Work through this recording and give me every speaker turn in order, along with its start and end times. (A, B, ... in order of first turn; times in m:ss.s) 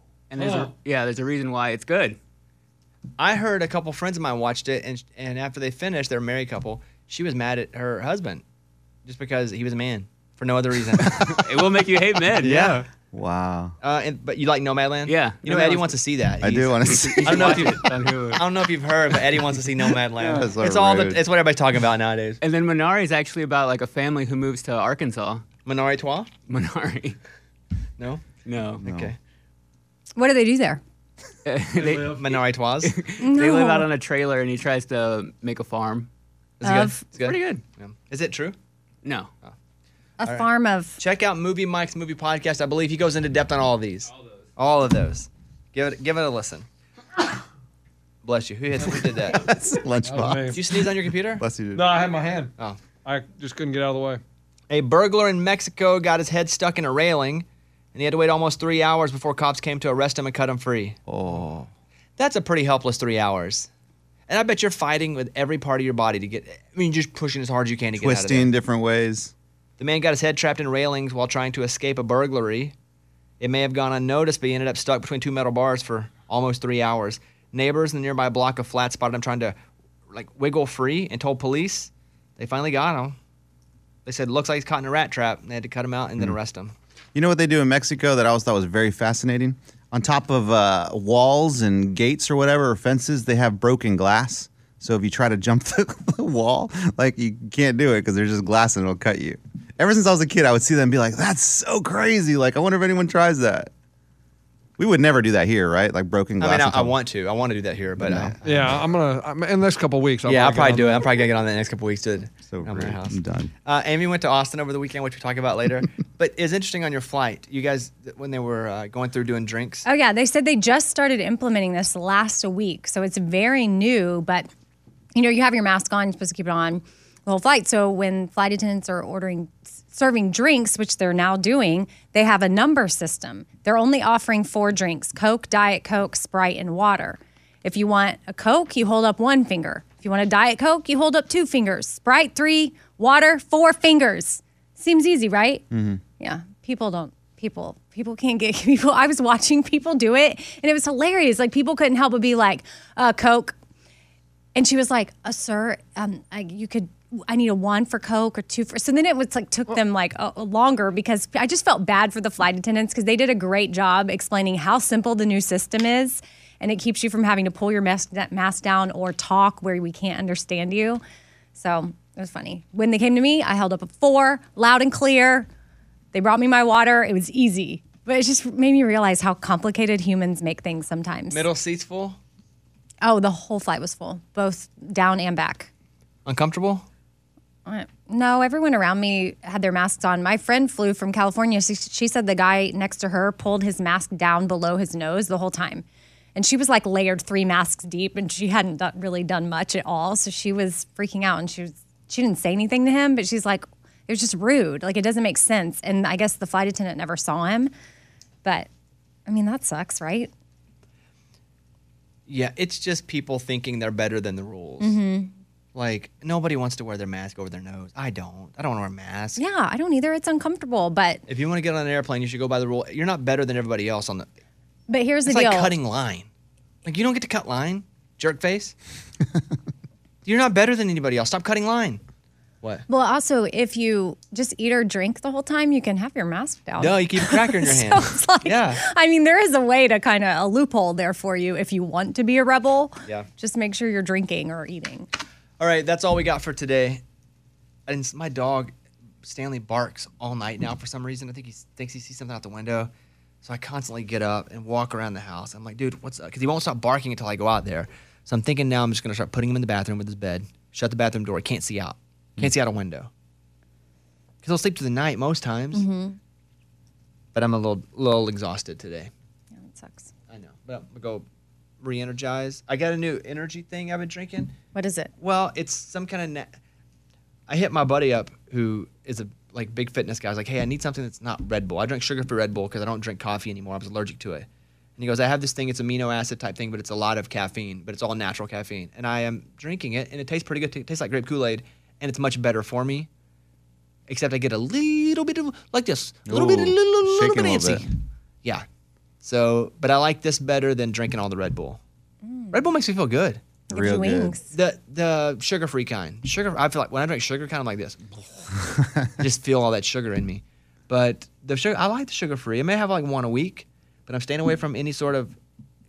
0:00.3-0:02.2 A
0:00.4-0:00.7 B
0:03.2-0:08.4 C
0:09.0-0:11.2 C
0:11.2-0:12.8 A
0:12.4-0:12.9 C
0:13.1-0:13.7 D
0:13.8-0:22.4 C
0:15.0-0:16.0 A
0:16.4-0:17.7 D
0:16.8-0:18.5 A
0:20.2-0:21.2 D
0:22.4-0:25.4 A
0:25.6-0:26.3 C
0:26.5-0:27.2 A
0:28.0-0:28.2 C
0:28.4-0:28.8 A
0:28.8-0:29.1 D
0:28.8-0:29.2 C
0:30.2-0:30.8 E
0:31.4-0:36.1 A
0:31.8-0:32.1 B
0:32.0-0:32.9 C
0:33.2-0:33.9 E
0:36.6-0:38.6 C
0:36.6-0:37.0 E
0:37.2-0:37.6 A
0:39.0-0:39.3 A
0:40.2-0:41.0 E
0:40.2-0:46.6 C
0:48.2-0:49.5 C
0:49.2-0:50.6 D
0:50.0-0:50.6 B
0:50.5-0:51.4 C
0:51.4-0:51.9 D
0:51.7-0:54.2 B
0:54.7-1:01.6 C
1:01.1-1:01.5 D
1:02.2-1:03.7 C
1:04.3-1:08.5 C
1:08.0-1:09.3 D
1:09.8-1:12.7 C
1:13.4-1:19.6 C
1:20.1-1:23.2 C
1:24.0-1:26.7 C
1:27.1-1:43.7 D
1:44.8-1:47.0 D
1:46.4-1:48.7 C
1:48.0-1:48.3 D
1:48.4-1:51.0 B
1:50.2-1:59.9 C
1:52.5-1:53.5 D
1:59.8-2:04.5 E
2:05.1-2:25.6 E
2:25.7-2:26.0 D
2:26.2-2:33.6 E
2:34.5-2:51.0 E
2:51.5-2:55.5 E
2:56.1-3:01.4 E
3:01.3-3:02.2 C
3:03.0-3:05.7 E
3:06.2-3:06.9 C
3:07.6-3:27.7 E
3:29.2-3:30.3 E
3:32.3-3:35.0 C
3:34.8-3:35.3 E
3:35.7-3:39.4 C
3:39.4-3:41.2 E
3:41.3-3:44.3 C
3:44.9-3:45.7 E
3:45.2-3:46.3 C
3:46.8-3:48.8 C
3:50.2-3:52.0 C
3:52.9-4:05.1 E
3:56.8-3:58.8 C
4:05.6-4:07.0 C
4:07.9-4:08.7 C
4:09.2-4:12.9 C
4:13.4-4:23.1 C
4:24.4-4:25.8 C
4:25.7-4:26.2 E
4:27.3-4:29.1 C
4:29.6-4:30.1 E
4:30.3-4:31.2 C
4:31.8-4:34.5 C
4:34.7-4:35.1 E
4:35.2-4:36.5 C
4:37.5-4:53.1 C
4:54.1-4:57.8 C
4:56.3-4:57.8 D
4:59.2-5:01.8 C
5:02.2-5:02.6 E
5:02.5-5:03.4 C
5:03.7-5:04.5 E
5:03.7-5:04.3 D
5:04.5-5:08.6 C
5:09.2-5:15.4 C